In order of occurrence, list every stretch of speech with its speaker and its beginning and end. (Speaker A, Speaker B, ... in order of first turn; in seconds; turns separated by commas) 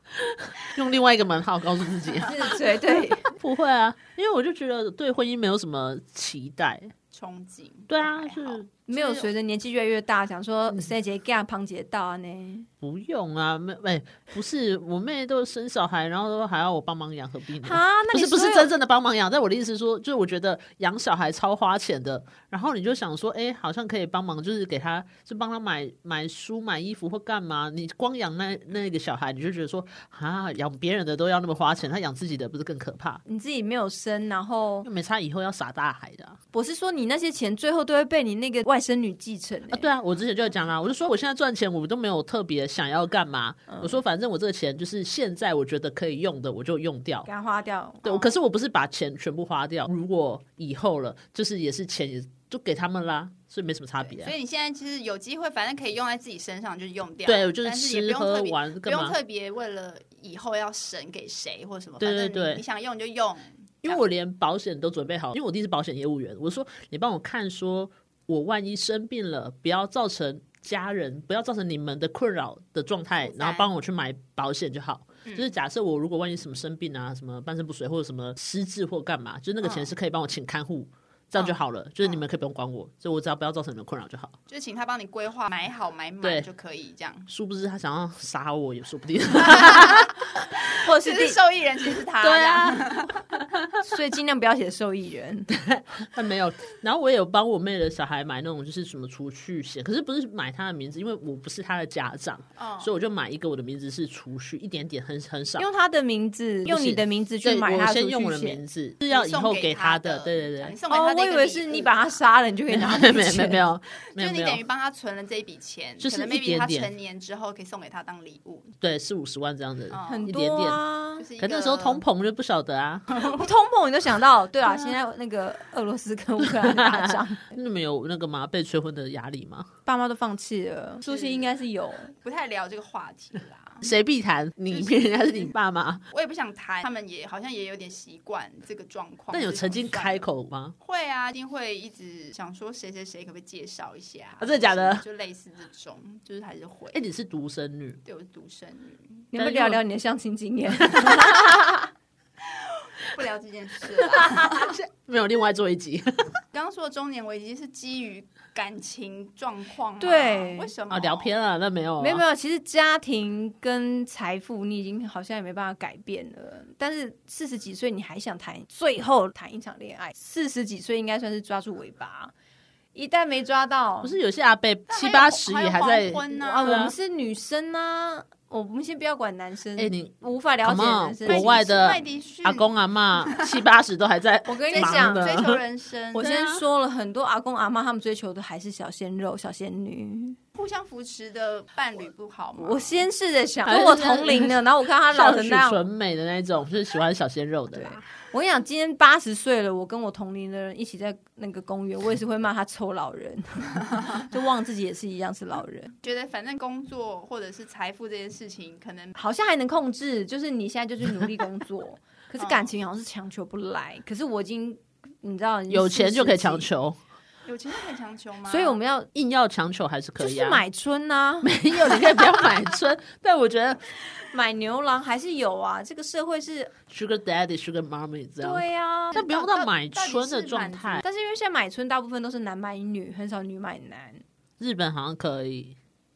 Speaker A: 0.2-2.6, Speaker B: 2.3-3.3, Speaker A: 3.3-6.9, Speaker C: 7.1-9.3, Speaker A: 7.9-8.7, Speaker B: 8.9-12.7, Speaker A: 12.8-33.2, Speaker B: 17.6-18.7, Speaker B: 33.3-34.9, Speaker A: 34.8-36.4, Speaker B: 36.5-39.9, Speaker A: 39.7-47.3, Speaker B: 43.7-44.0, Speaker B: 47.3-48.0, Speaker A: 48.0-54.3, Speaker C: 48.0-48.4, Speaker C: 54.0-64.1, Speaker A: 57.3-59.2, Speaker A: 62.0-62.6, Speaker A: 63.8-84.4, Speaker C: 73.2-73.7, Speaker C: 75.2-75.5, Speaker C: 81.3-82.2, Speaker C: 84.5-87.3, Speaker A: 87.3-90.2, Speaker B: 90.8-91.4, Speaker C: 90.9-93.3, Speaker A: 92.2-92.9, Speaker A: 93.5-93.8, Speaker B: 93.8-95.5, Speaker A: 95.5-105.7, Speaker C: 102.6-102.9, Speaker B: 105.6-108.6, Speaker A: 106.7-110.8, Speaker C: 109.1-112.2, Speaker B: 110.9-113.6, Speaker A: 112.7-114.6, Speaker C: 114.2-118.7, Speaker A: 116.0-116.9, Speaker A: 118.8-120.8, Speaker C: 119.9-120.3, Speaker B: 120.1-121.3, Speaker C: 121.2-122.0, Speaker A: 121.4-123.1, Speaker C: 123.1-123.5, Speaker B: 123.2-127.5, Speaker A: 126.4-129.7, Speaker B: 129.8-132.1, Speaker C: 131.1-131.5, Speaker C: 132.2-133.9, Speaker A: 133.8-136.0, Speaker C: 134.7-135.5, Speaker C: 136.1-140.3, Speaker A: 139.3-140.8, Speaker C: 140.8-147.0, Speaker A: 144.4-145.0, Speaker A: 146.9-148.0, Speaker C: 148.1-149.3, Speaker B: 149.3-151.8, Speaker A: 149.3-149.8, Speaker A: 150.9-151.3, Speaker C: 152.5-154.7, Speaker A: 154.4-156.1, Speaker C: 156.5-161.4, Speaker B: 160.0-160.7, Speaker A: 160.9-162.2, Speaker B: 162.0-172.3, Speaker B: 172.9-174.2, Speaker A: 174.0-176.9, Speaker C: 174.9-176.9, Speaker B: 176.3-182.0, Speaker A: 179.8-180.1, Speaker A: 180.6-185.6, Speaker C: 181.3-183.6, Speaker B: 184.5-185.4, Speaker C: 184.7-186.3, Speaker B: 186.1-190.4, Speaker A: 186.2-186.7, Speaker C: 190.6-193.1, Speaker B: 192.6-195.9, Speaker A: 193.7-198.0, Speaker B: 197.7-205.9, Speaker C: 206.0-209.1, Speaker B: 209.2-216.7, Speaker C: 212.4-212.8, Speaker A: 215.7-217.0, Speaker C: 217.5-218.8, Speaker B: 218.5-219.1, Speaker A: 219.1-220.6, Speaker B: 220.2-222.4, Speaker A: 221.4-223.8, Speaker B: 224.1-226.7, Speaker A: 226.9-231.1, Speaker B: 228.4-229.2, Speaker C: 229.1-231.0, Speaker B: 231.0-234.2, Speaker A: 234.6-235.8